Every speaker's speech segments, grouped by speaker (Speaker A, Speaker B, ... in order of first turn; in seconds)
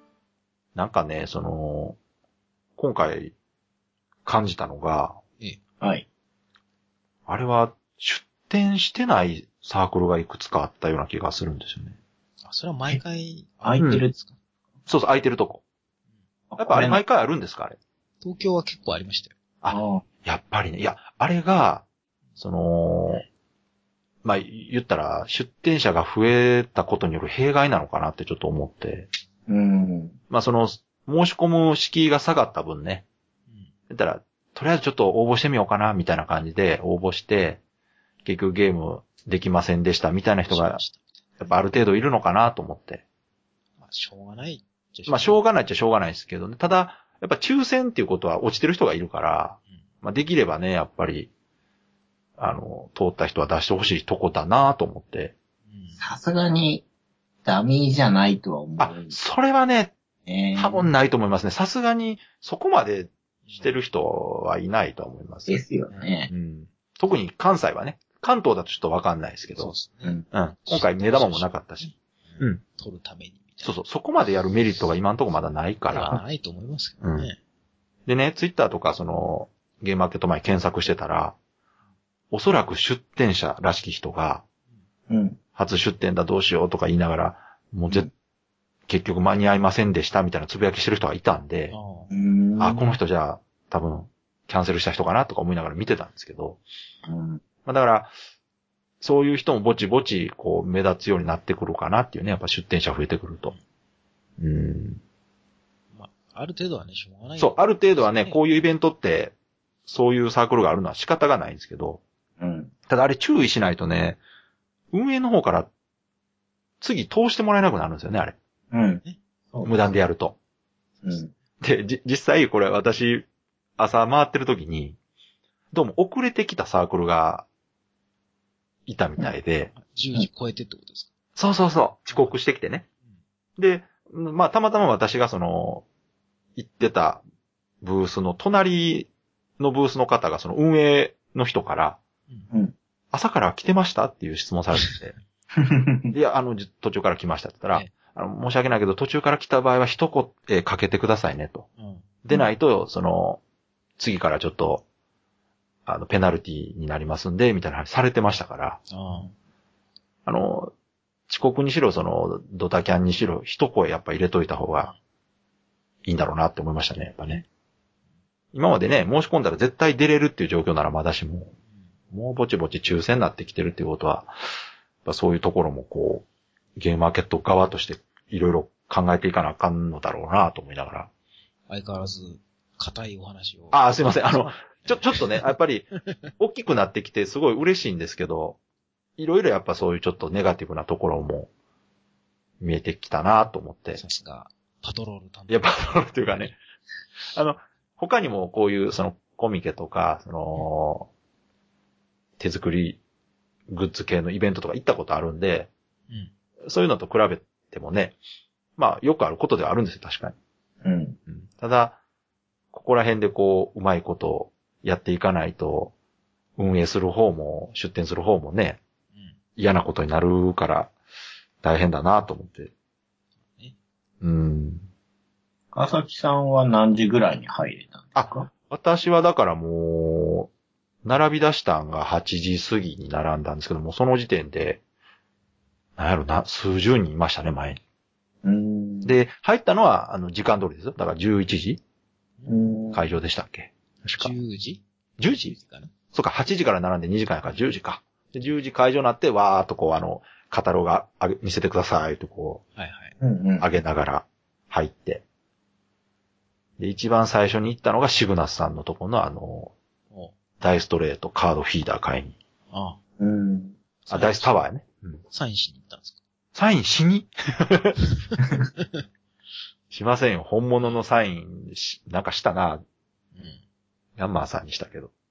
Speaker A: 0.7-2.0, 2.8-3.3, 4.2-5.2, 7.3-11.9, 13.8-14.0, 14.9-15.6, 16.6-17.8, 19.6-21.8, 22.4-23.2, 24.2-29.1, 30.3-33.0, 33.9-37.6, 38.2-40.8, 41.4-43.0, 45.1-51.3, 52.4-55.3, 58.8-59.9, 60.5-65.6, 66.3-69.7, 70.3-72.6, 73.6-76.2, 77.0-77.3, 78.0-81.3, 82.3-84.4, 85.5-88.1, 88.9-91.7, 92.6-96.6, 97.6-98.1, 99.0-103.5, 104.4-105.0, 107.4-109.3, 109.9-112.0, 112.9-114.2, 114.9-115.7, 116.8-118.3, 119.6-120.3, 121.6-123.3, 123.8-125.0, 125.7-127.4, 128.9-129.7, 131.3-132.8, 133.6-135.8, 136.6-137.2, 137.8-142.0, 143.1-145.2, 146.1-151.7, 152.2-153.4, 154.0-154.8, 155.8-158.8, 160.2-160.7, 161.3-164.9, 166.0-167.4, 168.5-171.5, 172.1-174.3, 175.0-176.2, 176.8-181.1, 183.7-185.9, 186.4-188.6, 189.2-191.5, 192.6-194.0, 195.5-196.5, 197.3-201.1, 202.4-203.0, 203.7-205.7, 206.7-208.2, 208.8-210.3, 211.3-212.0, 212.7-215.9, 216.6-218.8, 219.6-220.9, 221.6-222.7, 224.2-224.8, 228.1-230.5, 231.0-234.8, 236.0-237.8, 239.0-241.8, 242.9-244.3, 245.2-245.6, 246.1-252.6, 253.6-255.2, 256.8-259.7, 260.6-262.4, 264.1-265.2, 266.5-268.0, 269.9-272.8, 274.2-275.1
Speaker B: 12.4-14.3, 18.2-19.3, 40.5-41.5, 43.8-45.4, 55.7-56.0, 63.5-63.7, 69.5-73.7, 75.9-77.4, 91.7-92.1, 105.9-108.4, 129.7-131.1, 132.1-132.3, 151.8-152.1, 158.9-159.3, 181.7-185.6, 186.1-186.3, 194.0-196.6, 244.2-245.9, 252.7-253.1, 262.7-263.0, 264.1-264.6, 265.3-266.1, 273.3-273.6
Speaker C: 13.6-14.1, 16.5-17.0, 19.7-20.0, 29.5-30.2, 56.0-56.8, 57.4-59.1, 60.2-60.9, 65.5-66.3, 85.1-85.4, 92.1-92.9, 97.0-97.4, 112.4-112.7, 118.7-119.0, 119.5-119.9, 121.0-121.3, 145.5-146.1, 210.8-211.2, 225.7-228.5, 238.4-239.1, 242.5-243.0, 253.2-253.7, 263.2-263.8